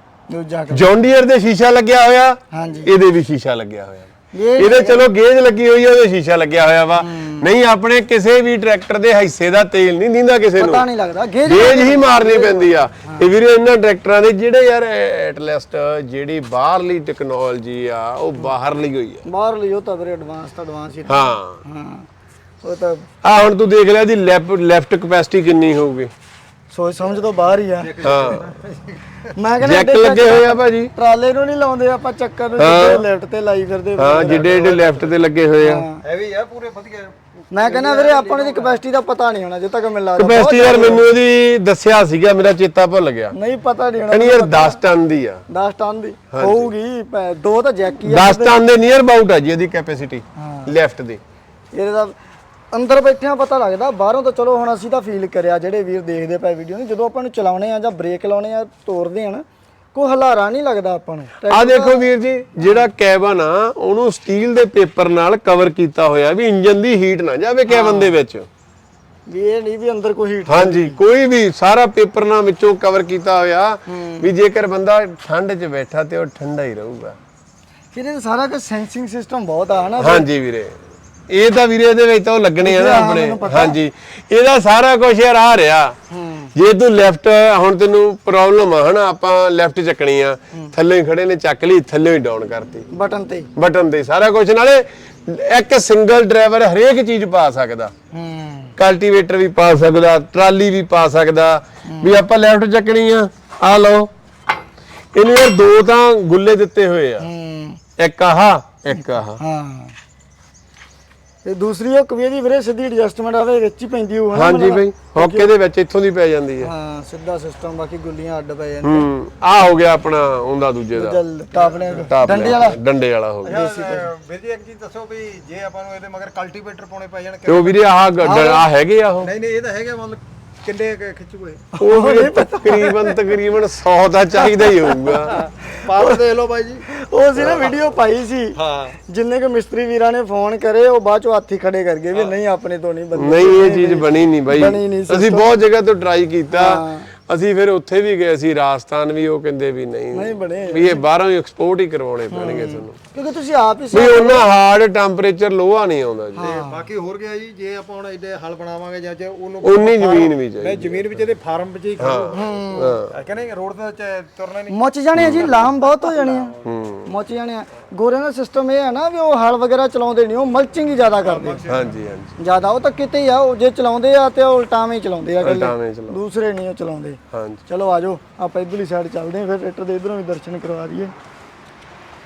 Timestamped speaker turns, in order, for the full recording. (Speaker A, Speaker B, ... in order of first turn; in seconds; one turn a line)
Speaker A: 0.3-0.9
Speaker B: 0.7-10.9
Speaker A: 2.5-2.9
Speaker A: 4.3-5.0
Speaker A: 7.0-7.5
Speaker A: 10.6-13.3
Speaker B: 11.4-19.2
Speaker A: 19.3-22.1
Speaker B: 21.1-21.6
Speaker A: 22.6-23.1
Speaker B: 23.2-26.1
Speaker A: 26.7-28.1
Speaker C: 27.9-29.0
Speaker B: 28.0-28.5
Speaker A: 29.4-34.8
Speaker B: 29.6-30.9
Speaker B: 32.6-33.1
Speaker B: 34.0-35.9
Speaker C: 34.2-35.1
Speaker A: 35.6-36.0
Speaker C: 36.0-38.8
Speaker A: 37.5-41.1
Speaker B: 40.2-43.4
Speaker A: 43.3-44.8
Speaker B: 44.1-45.4
Speaker A: 45.5-48.6
Speaker B: 46.3-46.7
Speaker B: 48.1-51.2
Speaker A: 50.4-50.7
Speaker A: 51.7-52.2
Speaker A: 52.7-62.0
Speaker B: 61.5-68.5
Speaker A: 67.7-68.2
Speaker A: 69.3-71.0
Speaker B: 70.5-77.2
Speaker A: 73.9-74.3
Speaker A: 77.9-80.3
Speaker B: 80.0-80.8
Speaker B: 81.3-86.0
Speaker A: 82.6-83.8
Speaker A: 86.1-86.5
Speaker B: 86.5-92.9
Speaker A: 92.9-93.5
Speaker B: 93.6-97.9
Speaker A: 98.1-98.7
Speaker B: 98.8-104.1
Speaker A: 101.9-102.1
Speaker B: 105.1-107.3
Speaker A: 107.2-107.8
Speaker B: 108.0-109.4
Speaker A: 109.4-110.0
Speaker A: 111.5-115.5
Speaker B: 114.3-116.7
Speaker A: 116.6-119.1
Speaker B: 118.8-121.2
Speaker A: 121.0-122.8
Speaker C: 121.5-122.5
Speaker B: 122.1-123.6
Speaker C: 123.4-127.8
Speaker A: 123.5-124.1
Speaker B: 127.5-129.3
Speaker A: 128.2-128.6
Speaker C: 129.2-131.7
Speaker A: 131.7-133.1
Speaker B: 131.8-135.4
Speaker C: 132.7-133.1
Speaker A: 134.6-136.2
Speaker C: 135.2-136.9
Speaker A: 136.9-145.5
Speaker C: 138.6-138.9
Speaker B: 143.2-153.0
Speaker A: 146.5-147.1
Speaker A: 150.1-151.0
Speaker A: 152.3-154.5
Speaker B: 153.9-156.6
Speaker A: 156.4-156.9
Speaker C: 156.4-164.8
Speaker B: 159.6-161.2
Speaker B: 162.0-163.1
Speaker A: 162.3-163.0
Speaker A: 164.7-166.5
Speaker B: 165.2-165.6
Speaker C: 166.2-166.5
Speaker B: 166.6-167.1
Speaker A: 167.1-171.6
Speaker C: 171.2-171.9
Speaker B: 171.7-172.4
Speaker A: 172.4-181.1
Speaker B: 175.4-176.2
Speaker B: 177.3-177.6